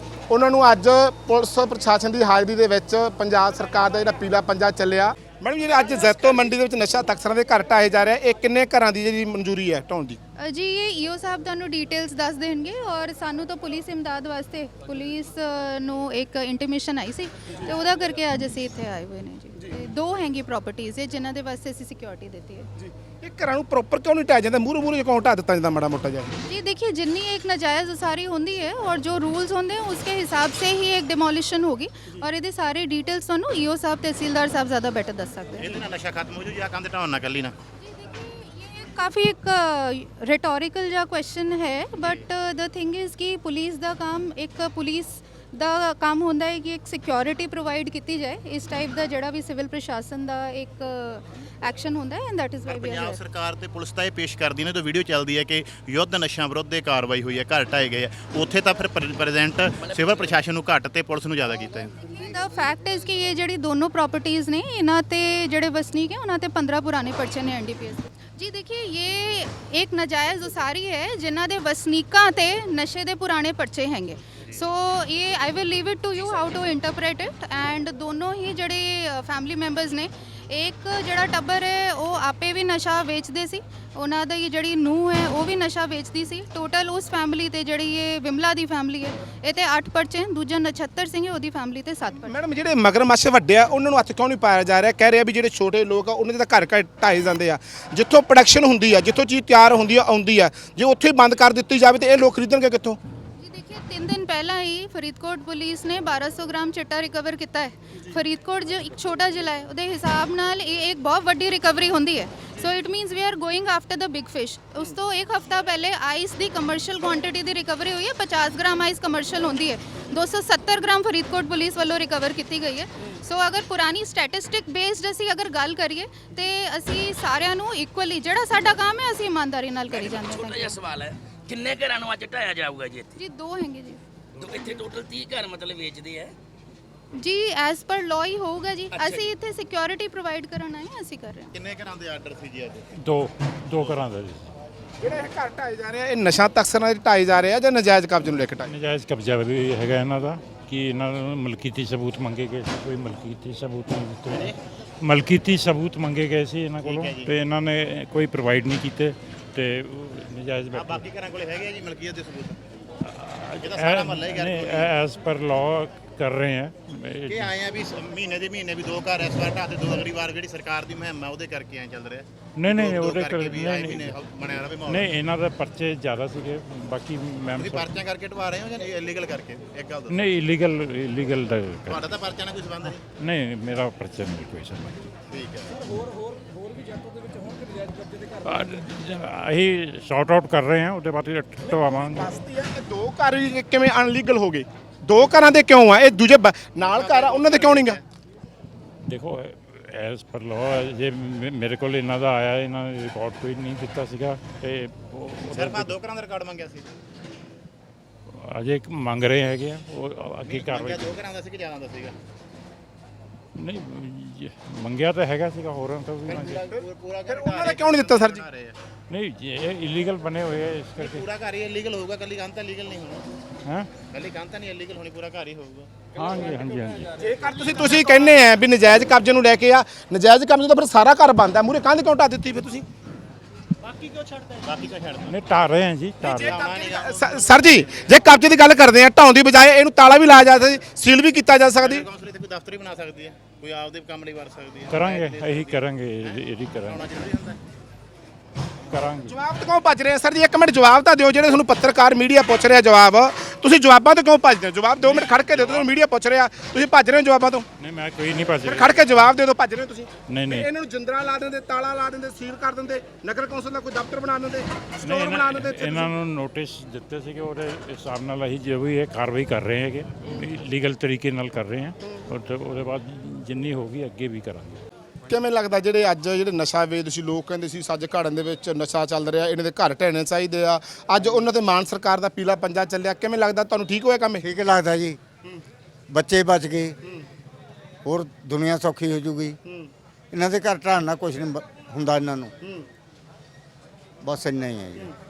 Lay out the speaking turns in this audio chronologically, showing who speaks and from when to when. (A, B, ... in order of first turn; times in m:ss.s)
0:00.3-0:10.2 A
0:10.4-0:22.7 B
0:22.8-0:26.4 A
0:26.5-0:35.9 B
0:35.6-0:37.6 C
0:37.8-0:53.2 B
0:42.0-0:42.3 C
0:52.7-1:01.9 C
1:02.0-1:32.4 B
1:16.2-1:16.7 C
1:32.2-1:43.0 A
1:43.4-2:10.8 B
2:09.9-2:13.1 D
2:13.2-2:14.0 B
2:14.4-2:16.3 D
2:17.2-2:21.5 B
2:21.5-2:22.9 C
2:23.0-2:24.5 E
2:23.8-2:24.0 C
2:25.0-2:28.7 A
2:28.7-2:41.0 E
2:34.3-2:34.6 C
2:36.8-2:37.3 C
2:40.7-2:42.6 C
2:43.0-2:47.6 E
2:43.6-2:44.9 C
2:47.3-2:55.1 C
2:52.6-2:54.2 E
2:54.8-2:57.9 E
2:57.5-3:00.4 C
3:00.1-3:02.1 E
3:01.9-3:03.0 C
3:02.8-3:05.0 E
3:05.3-3:05.8 C
3:08.4-3:12.3 E
3:11.7-3:18.0 A
3:16.8-3:18.0 C
3:19.1-3:26.0 E
3:25.5-3:26.9 C
3:28.4-3:31.2 E
3:30.4-3:32.2 C
3:33.6-3:36.7 E
3:36.2-3:38.8 C
3:36.7-3:38.4 A
3:39.1-3:41.2 E
3:41.0-3:43.2 C
3:44.1-3:45.9 C
3:46.2-3:47.1 E
3:47.2-3:52.8 A
3:53.8-3:55.3 C
3:55.3-3:56.6 E
3:56.2-4:02.1 A
3:56.3-3:58.1 C
4:01.8-4:07.6 C
4:04.9-4:07.2 E
4:08.9-4:09.4 E
4:09.3-4:17.7 A
4:15.0-4:15.8 E
4:17.8-4:19.0 E
4:18.6-4:26.1 A
4:20.3-4:20.7 E
4:25.0-4:34.8 E
4:35.3-4:44.4 A
4:44.4-4:45.2 F
4:46.1-4:47.0 F
4:48.0-4:49.6 F
4:50.3-4:52.5 F
4:54.2-4:55.1 F